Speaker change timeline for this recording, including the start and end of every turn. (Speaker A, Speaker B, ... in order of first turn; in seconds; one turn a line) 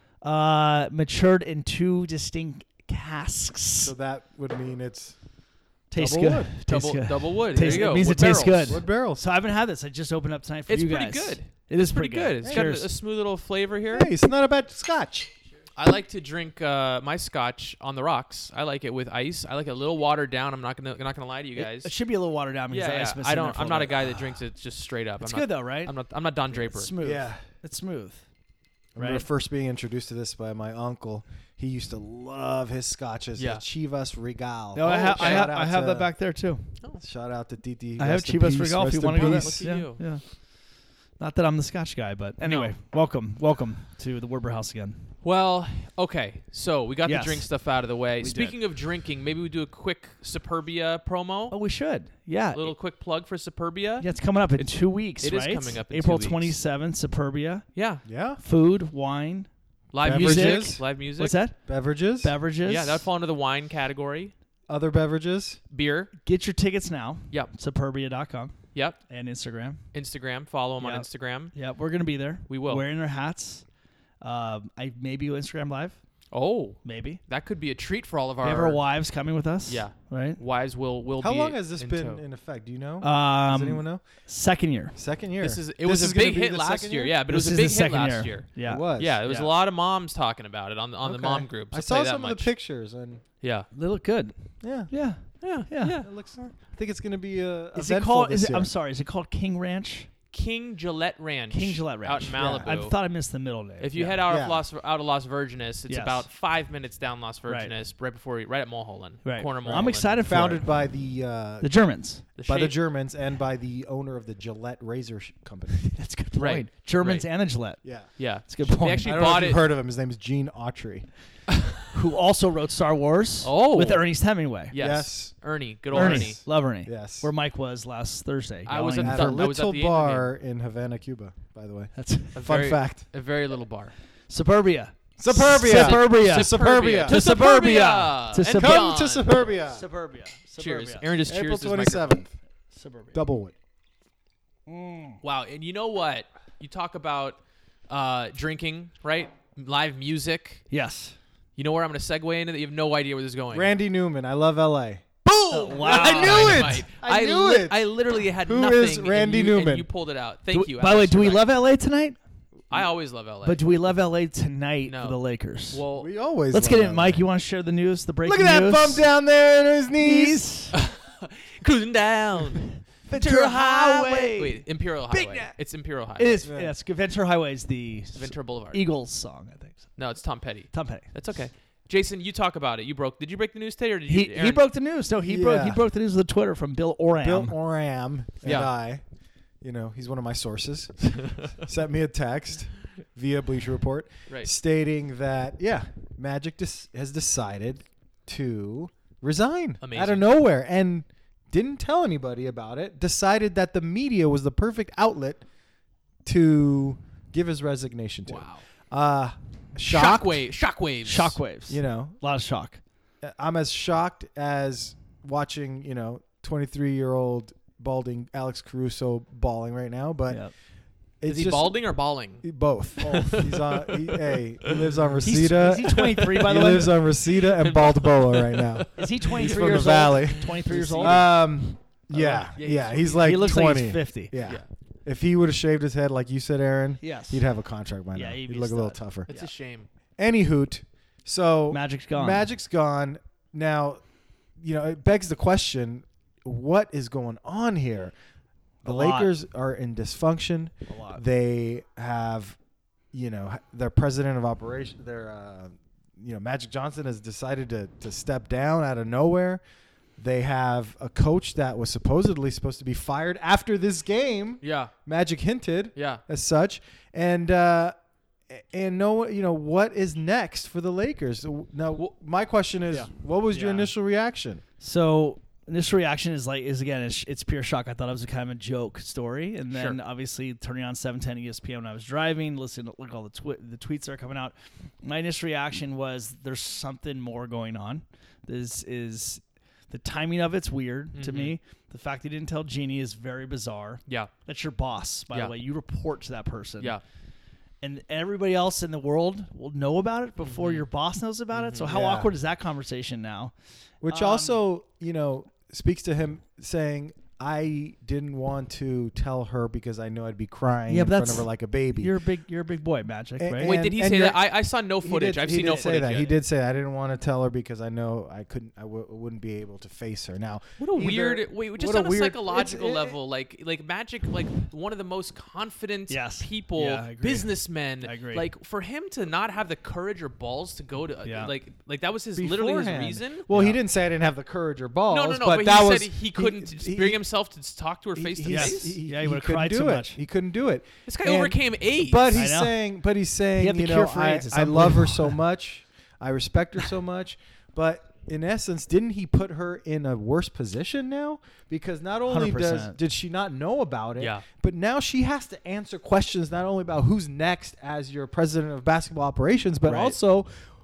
Speaker A: 0.2-3.9
Speaker B: 3.8-5.2
Speaker A: 5.9-12.9
Speaker B: 5.9-6.5
Speaker C: 6.7-8.8
Speaker B: 8.7-9.2
Speaker C: 10.7-14.1
Speaker B: 12.4-12.8
Speaker B: 13.9-15.3
Speaker C: 15.8-21.9
Speaker A: 21.5-24.4
Speaker C: 22.7-26.9
Speaker A: 25.2-25.9
Speaker A: 26.5-28.2
Speaker B: 27.0-27.4
Speaker A: 28.9-29.2
Speaker B: 28.9-36.1
Speaker C: 33.4-33.6
Speaker A: 34.7-36.7
Speaker C: 35.2-35.5
Speaker B: 37.0-39.7
Speaker A: 38.0-40.2
Speaker C: 39.1-40.0
Speaker A: 41.2-45.1
Speaker C: 42.4-42.7
Speaker C: 45.2-51.5
Speaker A: 47.0-47.5
Speaker A: 48.2-48.6
Speaker A: 51.5-52.7
Speaker C: 52.5-56.5
Speaker A: 54.0-57.6
Speaker C: 57.7-58.0
Speaker B: 58.0-58.4
Speaker A: 58.4-59.5
Speaker C: 59.9-61.4
Speaker B: 60.0-60.8
Speaker A: 60.0-61.6
Speaker B: 61.6-62.3
Speaker A: 62.2-63.0
Speaker C: 62.6-64.3
Speaker B: 64.7-65.6
Speaker C: 65.7-66.1
Speaker A: 66.2-68.5
Speaker A: 69.1-69.8
Speaker C: 69.9-71.5
Speaker A: 70.8-73.6
Speaker C: 72.5-72.8
Speaker A: 74.2-76.0
Speaker C: 76.3-78.8
Speaker A: 76.8-77.2
Speaker A: 78.4-80.4
Speaker C: 79.7-82.2
Speaker B: 81.2-84.0
Speaker A: 83.0-85.0
Speaker B: 84.9-87.2
Speaker C: 85.4-92.5
Speaker A: 87.3-89.5
Speaker B: 88.6-89.2
Speaker B: 91.0-93.2
Speaker C: 93.4-93.7
Speaker A: 93.7-96.0
Speaker B: 94.6-94.9
Speaker C: 95.4-96.5
Speaker B: 96.0-98.7
Speaker A: 97.7-100.1
Speaker C: 100.3-102.9
Speaker A: 101.5-104.2
Speaker B: 102.3-102.7
Speaker C: 103.8-110.2
Speaker B: 104.2-104.6
Speaker A: 105.9-106.3
Speaker A: 107.5-107.7
Speaker A: 109.2-110.7
Speaker B: 109.6-111.7
Speaker A: 111.6-112.2
Speaker C: 112.3-112.8
Speaker B: 112.5-115.8
Speaker A: 115.7-117.8
Speaker C: 116.4-117.3
Speaker B: 117.8-118.1
Speaker C: 118.2-119.7
Speaker A: 118.5-119.5
Speaker B: 119.0-121.1
Speaker A: 121.9-124.7
Speaker C: 123.4-124.1
Speaker C: 124.7-126.4
Speaker B: 124.8-125.3
Speaker B: 125.9-127.3
Speaker A: 125.9-129.4
Speaker C: 128.7-130.3
Speaker B: 129.0-133.0
Speaker A: 131.9-132.4
Speaker C: 132.3-133.9
Speaker A: 134.3-138.9
Speaker B: 135.2-137.2
Speaker C: 135.3-139.3
Speaker B: 138.5-139.8
Speaker A: 139.7-141.1
Speaker C: 140.6-142.2
Speaker B: 141.3-142.3
Speaker A: 142.7-143.2
Speaker B: 143.1-143.5
Speaker A: 144.7-145.2
Speaker C: 145.2-150.6
Speaker A: 150.7-151.2
Speaker C: 151.6-153.7
Speaker B: 153.5-155.2
Speaker C: 155.2-161.4
Speaker A: 155.5-156.7
Speaker B: 155.8-157.9
Speaker B: 158.4-159.9
Speaker A: 160.5-162.2
Speaker C: 162.7-163.6
Speaker A: 163.4-165.8
Speaker C: 164.8-165.2
Speaker C: 165.7-166.1
Speaker B: 165.9-167.2
Speaker A: 166.5-169.1
Speaker B: 168.2-170.4
Speaker A: 170.0-170.8
Speaker C: 170.7-176.4
Speaker A: 173.1-175.5
Speaker A: 176.2-179.9
Speaker B: 176.4-176.7
Speaker C: 178.1-178.8
Speaker C: 180.0-184.6
Speaker A: 180.7-181.1
Speaker A: 184.1-187.5
Speaker B: 185.2-185.8
Speaker B: 187.2-189.0
Speaker C: 188.4-188.7
Speaker B: 189.6-205.4
Speaker C: 191.2-191.5
Speaker C: 199.8-200.2
Speaker B: 206.2-210.4
Speaker C: 208.3-208.6
Speaker C: 209.8-211.4
Speaker A: 211.1-212.8
Speaker B: 211.7-212.2
Speaker B: 213.2-220.4
Speaker B: 221.2-221.8
Speaker C: 221.3-222.4
Speaker B: 222.4-239.3
Speaker C: 223.0-224.9
Speaker A: 223.0-223.3
Speaker A: 225.2-227.1
Speaker C: 225.9-226.7
Speaker C: 227.4-231.2
Speaker A: 228.9-231.2
Speaker A: 232.1-232.5
Speaker C: 232.5-233.5
Speaker A: 233.1-234.3
Speaker C: 234.4-234.7
Speaker A: 237.0-237.4
Speaker A: 238.1-239.5
Speaker C: 239.3-239.9
Speaker B: 240.2-244.0
Speaker A: 241.7-242.5
Speaker B: 244.6-248.1
Speaker A: 248.8-249.3
Speaker B: 248.8-252.6
Speaker A: 250.9-251.2
Speaker B: 253.1-259.6
Speaker B: 260.2-267.9
Speaker C: 264.6-264.9
Speaker C: 265.9-266.2
Speaker B: 268.5-274.6
Speaker A: 272.9-273.9
Speaker A: 274.8-297.0
Speaker C: 279.7-280.0
Speaker C: 291.1-291.5
Speaker A: 297.8-303.5
Speaker C: 300.4-300.8
Speaker C: 301.5-301.9
Speaker B: 301.9-302.3
Speaker B: 304.0-312.1
Speaker A: 304.1-304.6
Speaker A: 310.9-313.7
Speaker B: 313.4-314.4
Speaker C: 313.6-316.4
Speaker B: 315.0-323.2
Speaker A: 315.6-315.9
Speaker C: 320.8-333.5
Speaker A: 326.1-327.5
Speaker A: 328.0-328.4
Speaker A: 331.2-331.5
Speaker B: 332.4-337.2
Speaker A: 333.5-333.8
Speaker C: 335.1-338.9
Speaker B: 338.1-360.5
Speaker A: 338.4-340.2
Speaker C: 341.1-342.4
Speaker A: 342.3-342.7
Speaker A: 343.6-345.3
Speaker A: 352.3-353.0
Speaker C: 354.2-354.4
Speaker A: 359.9-360.1